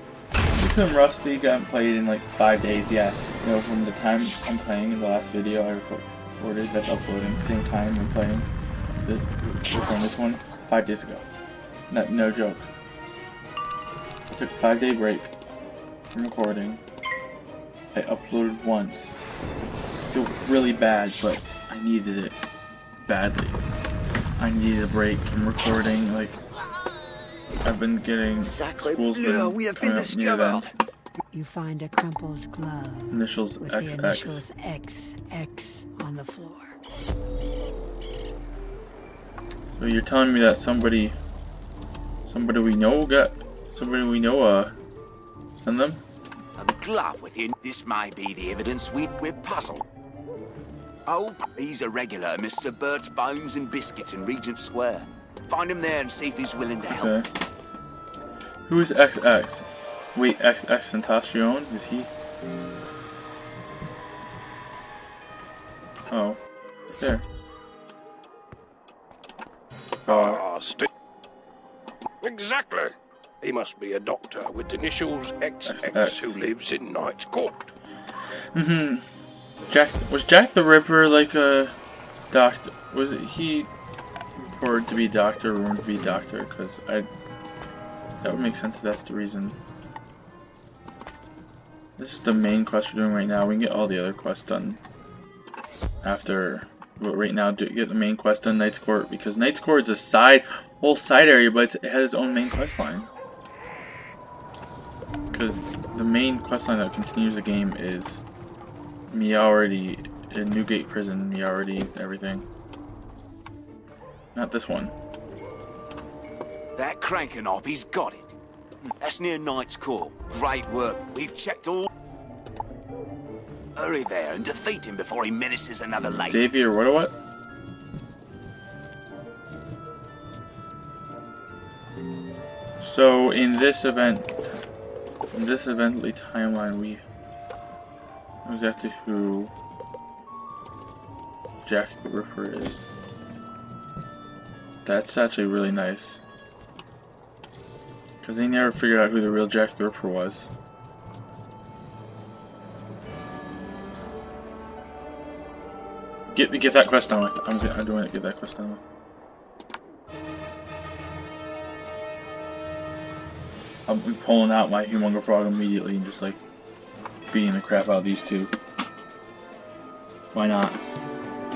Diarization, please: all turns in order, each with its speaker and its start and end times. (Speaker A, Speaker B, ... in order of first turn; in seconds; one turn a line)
Speaker A: 0.5-8.5
Speaker A: 9.1-11.3
Speaker A: 11.9-12.7
Speaker A: 14.3-15.3
Speaker A: 16.1-16.8
Speaker A: 17.9-19.2
Speaker A: 20.1-22.4
Speaker A: 23.1-23.6
Speaker A: 24.4-26.4
Speaker A: 27.6-30.7
Speaker B: 28.6-30.7
Speaker C: 31.3-36.8
Speaker A: 33.1-34.4
Speaker A: 39.8-41.2
Speaker A: 42.3-44.8
Speaker A: 45.6-46.0
Speaker B: 46.6-49.8
Speaker B: 51.1-57.2
Speaker A: 56.9-57.3
Speaker A: 58.7-62.1
Speaker A: 66.1-66.4
Speaker A: 67.0-67.2
Speaker A: 70.1-70.4
Speaker D: 70.1-70.9
Speaker D: 72.3-72.9
Speaker D: 73.4-77.7
Speaker A: 75.6-76.4
Speaker A: 78.5-79.0
Speaker A: 79.7-81.8
Speaker A: 82.3-83.7
Speaker A: 84.4-87.1
Speaker A: 88.2-89.6
Speaker A: 92.0-94.8
Speaker A: 96.0-103.1
Speaker A: 105.3-108.2
Speaker A: 109.1-112.5
Speaker A: 114.3-114.9
Speaker B: 116.8-118.3
Speaker B: 119.0-121.9
Speaker B: 123.8-126.5
Speaker A: 126.0-127.2
Speaker A: 132.8-134.6
Speaker A: 135.3-137.0
Speaker A: 138.4-139.5
Speaker A: 141.6-142.8
Speaker A: 144.8-146.2
Speaker A: 148.2-150.5
Speaker A: 156.3-158.8
Speaker A: 163.9-166.4
Speaker A: 167.3-168.5
Speaker A: 170.3-170.8